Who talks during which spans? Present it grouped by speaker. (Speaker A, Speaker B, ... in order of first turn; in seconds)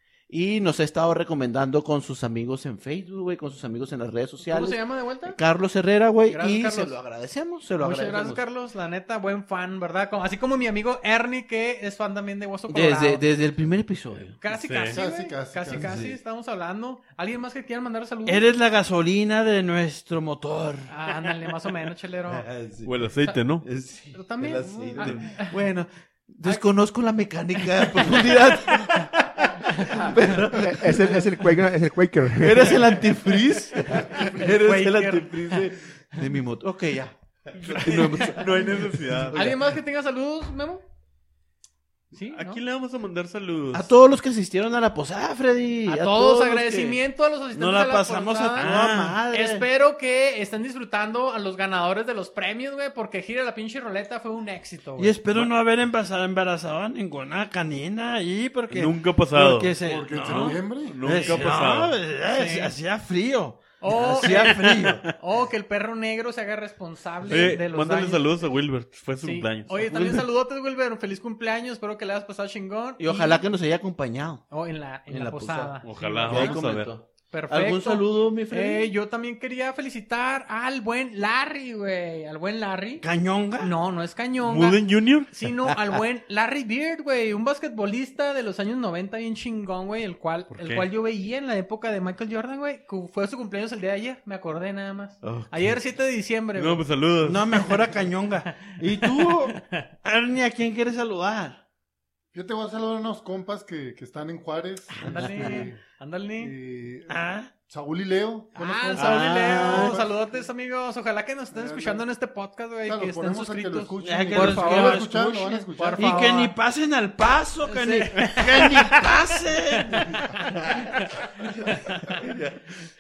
Speaker A: 0.3-8.4, 12.7-14.3, 15.7-16.1, 22.3-22.9, 23.6-31.4, 32.4-39.5, 43.7-47.0, 48.5-49.6, 63.9-65.0, 73.0-74.5, 75.1-78.9, 95.2-95.7, 97.2-99.5, 100.0-101.5, 105.1-105.4, 122.1-122.6
Speaker B: 4.4-5.4, 6.3-7.0, 7.8-13.2, 14.4-18.4, 20.9-22.5, 24.1-25.6, 27.6-30.1, 33.8-35.7, 39.3-40.8, 42.1-42.6, 45.9-55.2, 62.3-62.7, 63.8-68.2, 69.2-73.4, 74.5-76.6, 77.3-83.0, 83.6-96.8, 98.5-99.9, 104.9-106.5, 108.5-116.5, 117.6-119.0, 119.8-122.3
Speaker C: 14.5-15.0, 22.8-23.7, 37.6-39.5, 42.3-43.9, 58.7-62.0, 64.4-65.1, 67.2-70.2, 75.8-76.9, 84.4-85.3, 90.5-90.9, 96.6-97.5, 109.0-109.9
Speaker D: 14.8-16.1, 59.8-61.4, 102.3-105.8, 106.4-110.4, 111.5-112.0, 112.8-116.2
Speaker E: 18.2-20.8, 47.5-49.2, 55.0-65.1, 83.0-83.7, 97.5-99.5, 100.3-100.8, 107.1-107.5, 114.0-120.2
Speaker F: 30.0-33.1